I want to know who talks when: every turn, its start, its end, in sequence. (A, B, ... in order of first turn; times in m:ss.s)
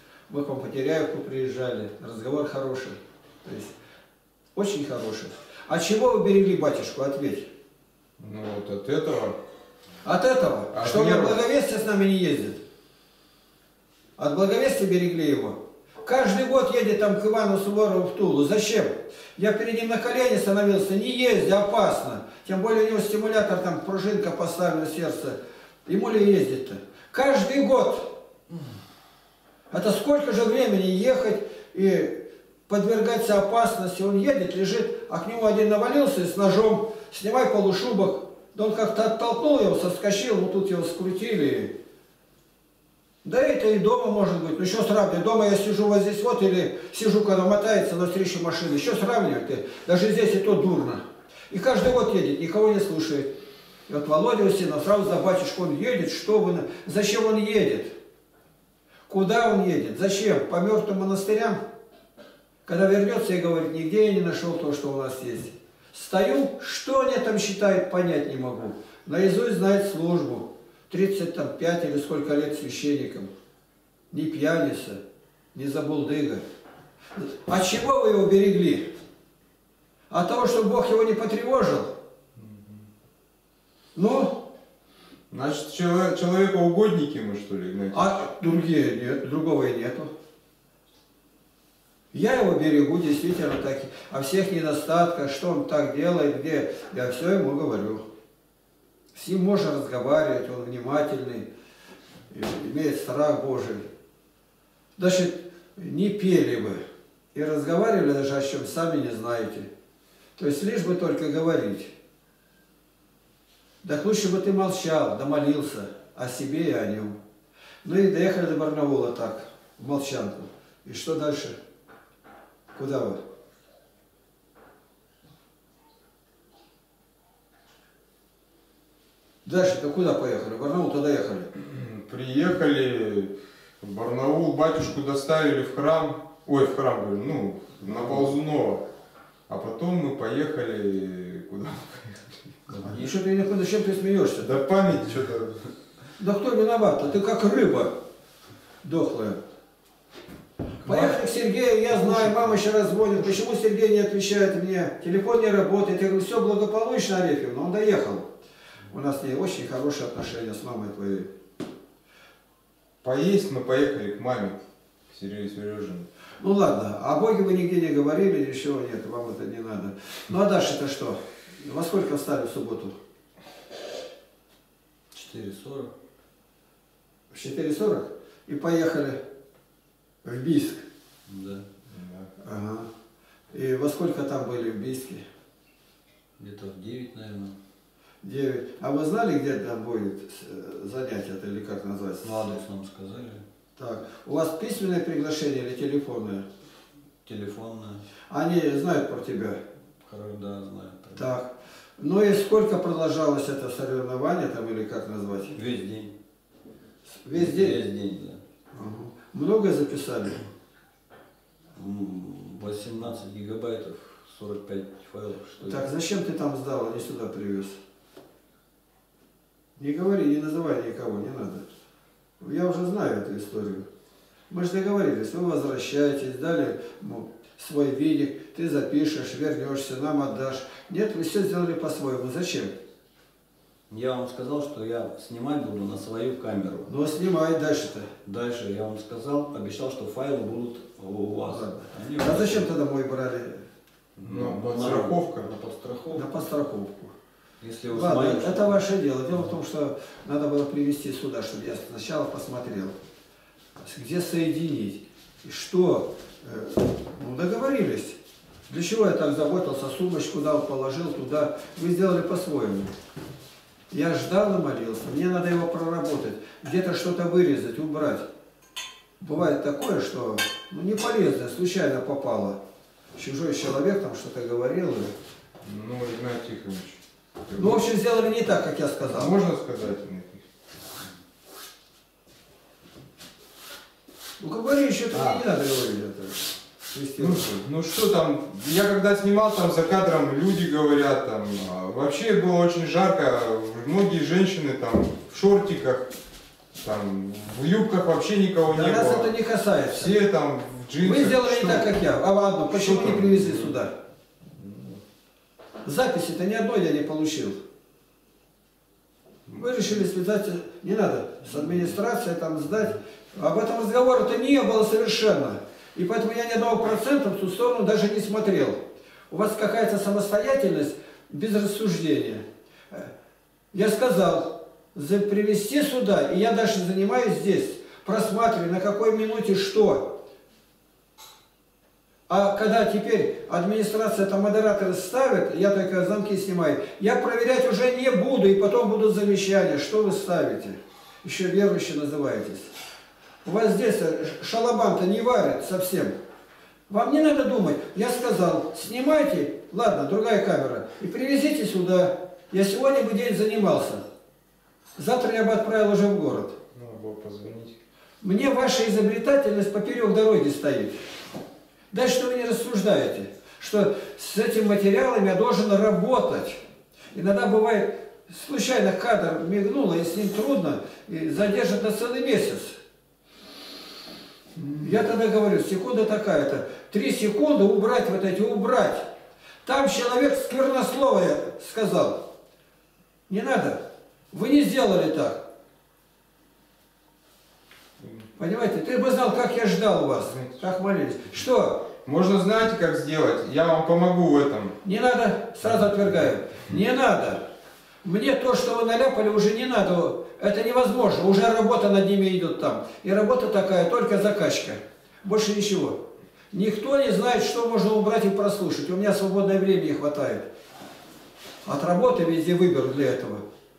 0:00.3-0:03.7 A
0:04.5-0:07.5 A
0:08.2-0:09.4 B
0:10.0-0:12.6 A
0:10.7-0:11.4 B
0:14.2-0:28.1 A
0:29.7-0:41.7 A
0:43.2-0:53.3 A
0:53.9-0:57.9 A
0:59.1-1:01.6 A
1:02.6-1:13.3 A
1:14.1-1:15.0 A
1:15.5-1:16.4 A
1:17.1-1:18.8 A
1:20.1-1:21.9 A
1:22.4-1:22.8 B
1:23.9-1:24.4 A
1:25.3-1:28.2 B
1:27.9-1:30.1 A
1:32.1-1:38.0 A
1:39.1-1:41.5 A
1:42.3-1:43.8 A
1:45.0-1:46.8 A
1:47.3-1:49.7 A
1:50.4-1:51.9 A
1:53.8-1:57.2 A
1:57.8-2:01.6 A
2:02.7-2:03.2 A
2:09.4-2:11.5 A
2:11.6-2:18.8 B
2:19.5-2:22.5 B
2:22.7-2:23.1 C
2:22.8-2:24.5 A
2:24.4-2:25.7 B
2:26.2-2:28.0 A
2:28.8-2:29.4 A
2:30.8-2:38.3 A
2:38.9-2:41.3 A
2:43.0-2:46.1 B
2:46.4-2:52.9 A
2:55.1-2:55.9 C
2:57.3-2:59.2 A
3:00.2-3:00.8 A
3:01.3-3:01.6 C
3:01.9-3:02.3 B
3:02.4-3:02.9 A
3:03.5-3:05.2 A
3:06.4-3:07.5 C
3:08.2-3:12.5 A
3:12.2-3:13.4 C
3:13.8-3:16.4 A
3:17.2-3:18.0 C
3:18.3-3:19.6 A
3:20.0-3:21.3 C
3:21.1-3:25.5 A
3:25.5-3:26.1 C
3:27.2-3:27.8 A
3:27.3-3:28.4 C
3:28.7-3:30.4 A
3:31.7-3:35.9 C
3:35.6-3:37.8 A
3:39.8-3:41.6 A
3:42.4-3:43.8 A
3:44.5-3:52.7 A
3:53.9-3:56.9 C
3:56.9-3:58.1 A
3:58.2-4:02.7 C
4:01.5-4:03.6 A
4:04.2-4:06.3 C
4:04.2-4:05.5 B
4:06.1-4:07.1 A
4:07.6-4:08.8 C
4:07.9-4:13.0 A
4:13.8-4:18.2 A
4:18.7-4:22.9 A
4:23.9-4:28.3 A
4:29.2-4:32.6 A
4:33.2-4:35.1 A
4:35.6-4:37.8 B
4:37.5-4:39.3 A
4:39.0-4:40.4 B
4:44.4-4:47.5 A
4:45.1-4:45.4 B
4:47.2-4:56.1 B
4:56.8-4:59.3 B
4:58.7-5:00.2 A
4:59.9-5:01.9 B
5:01.0-5:03.9 A
5:02.7-5:03.7 B
5:04.6-5:05.0 B
5:05.8-5:07.6 A
5:09.5-5:23.1 A
5:23.7-5:30.2 A
5:32.3-5:42.7 A
5:43.4-5:46.1 A
5:46.9-5:54.0 A
5:55.0-5:56.6 A
5:56.7-5:57.8 B
5:58.2-6:01.0 A
6:01.9-6:06.6 A
6:07.1-6:12.8 A
6:14.6-6:15.0 B
6:14.8-6:19.1 A
6:19.6-6:22.2 A
6:23.3-6:25.4 A
6:28.0-6:28.2 B
6:28.4-6:31.9 A
6:32.0-6:34.8 B
6:34.8-6:37.4 A
6:38.0-6:50.4 A
6:51.6-6:53.4 A